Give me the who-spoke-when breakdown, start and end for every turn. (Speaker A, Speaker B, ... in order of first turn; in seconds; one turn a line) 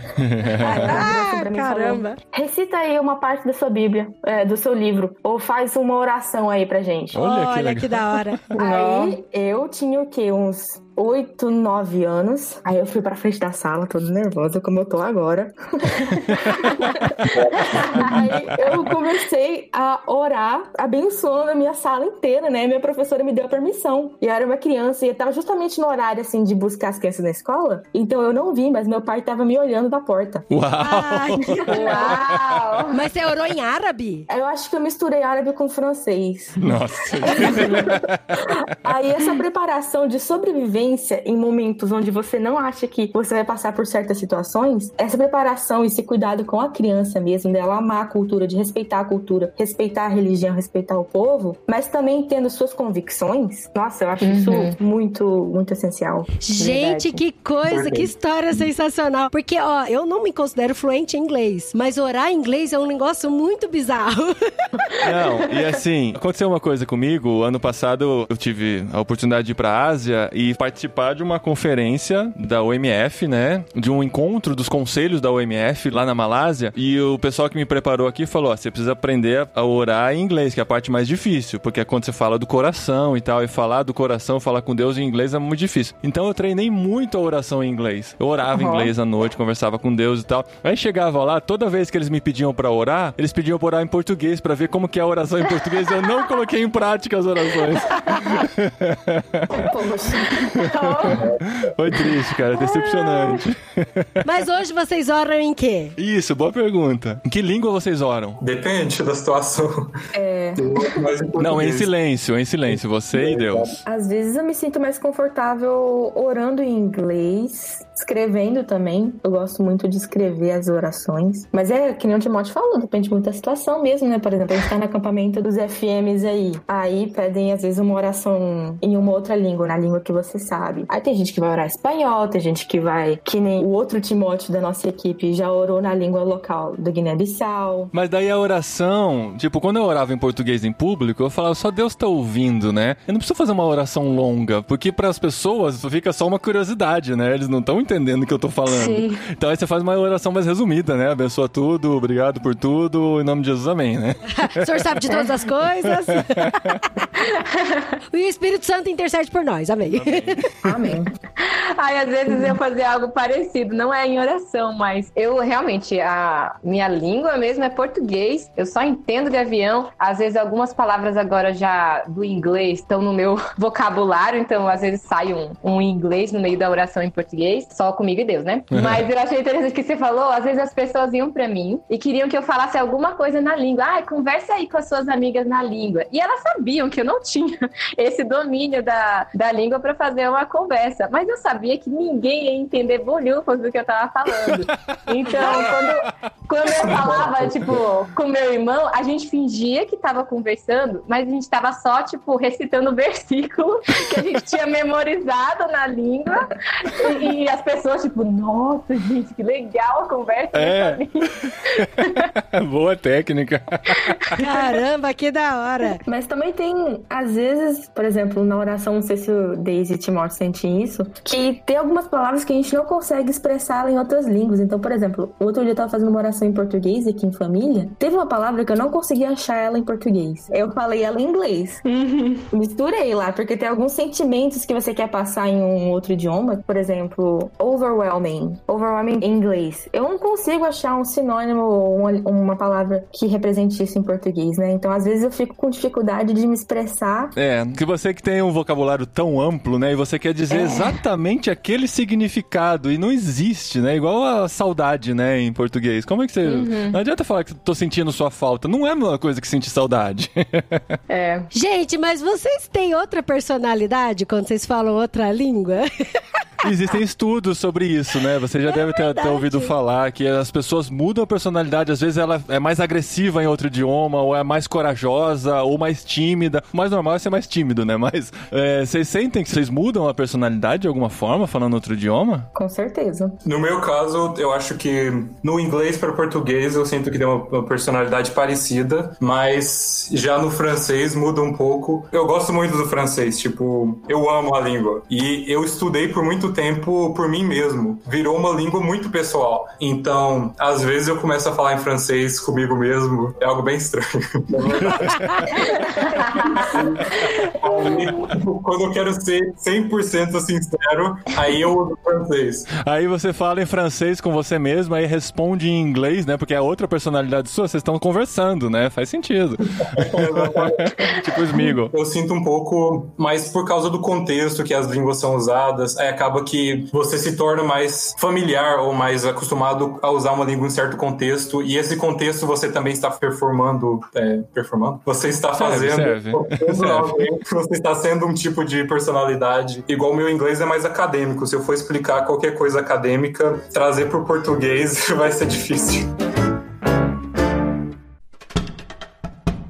Speaker A: 0.2-1.1
Speaker B: 0.6-2.2
Speaker C: 0.6-7.2
Speaker A: 7.1-8.2
Speaker B: 7.2-9.1
Speaker C: 8.6-30.5
Speaker D: 17.3-18.0
Speaker A: 18.1-18.4
Speaker A: 30.5-32.1
Speaker B: 30.8-34.3
Speaker C: 31.5-32.0
Speaker E: 31.7-33.0
Speaker C: 34.3-56.3
Speaker A: 36.6-38.7
Speaker E: 54.2-54.8
Speaker B: 56.4-65.1
Speaker E: 56.6-57.2
Speaker D: 57.7-58.1
Speaker A: 65.0-99.7
Speaker E: 88.5-88.9
Speaker C: 99.5-101.1
Speaker A: 100.5-104.3
Speaker E: 100.5-101.2
Speaker E: 102.8-103.4
Speaker B: 104.2-106.0
Speaker A: 106.0-108.4
Speaker D: 108.4-110.0
Speaker C: 110.1-111.0
Speaker D: 110.6-111.9
Speaker A: 111.4-113.8
Speaker D: 112.7-113.8
Speaker C: 113.8-137.9
Speaker A: 137.9-154.8
Speaker E: 148.7-149.2
Speaker B: 154.4-156.8
Speaker A: 155.9-156.8
Speaker E: 157.2-157.9
Speaker B: 158.1-160.5
Speaker A: 160.0-160.5
Speaker C: 160.6-161.1
Speaker E: 161.4-212.3
Speaker A: 178.7-179.1
Speaker A: 194.5-196.1
Speaker D: 196.9-197.7
Speaker A: 210.5-214.4
Speaker E: 214.3-214.7
Speaker B: 214.4-216.0
Speaker C: 216.1-231.8
Speaker E: 231.9-232.5
Speaker C: 232.5-247.3
Speaker A: 247.3-261.0
Speaker E: 250.5-251.0
Speaker E: 256.4-257.0
Speaker E: 261.1-261.5
Speaker B: 261.5-266.7
Speaker A: 266.6-282.5
Speaker B: 268.6-269.7
Speaker C: 282.5-283.4
Speaker D: 283.4-312.7
Speaker A: 304.9-305.5
Speaker E: 305.5-308.3
Speaker A: 312.8-321.9
Speaker D: 319.8-346.1
Speaker A: 335.6-337.3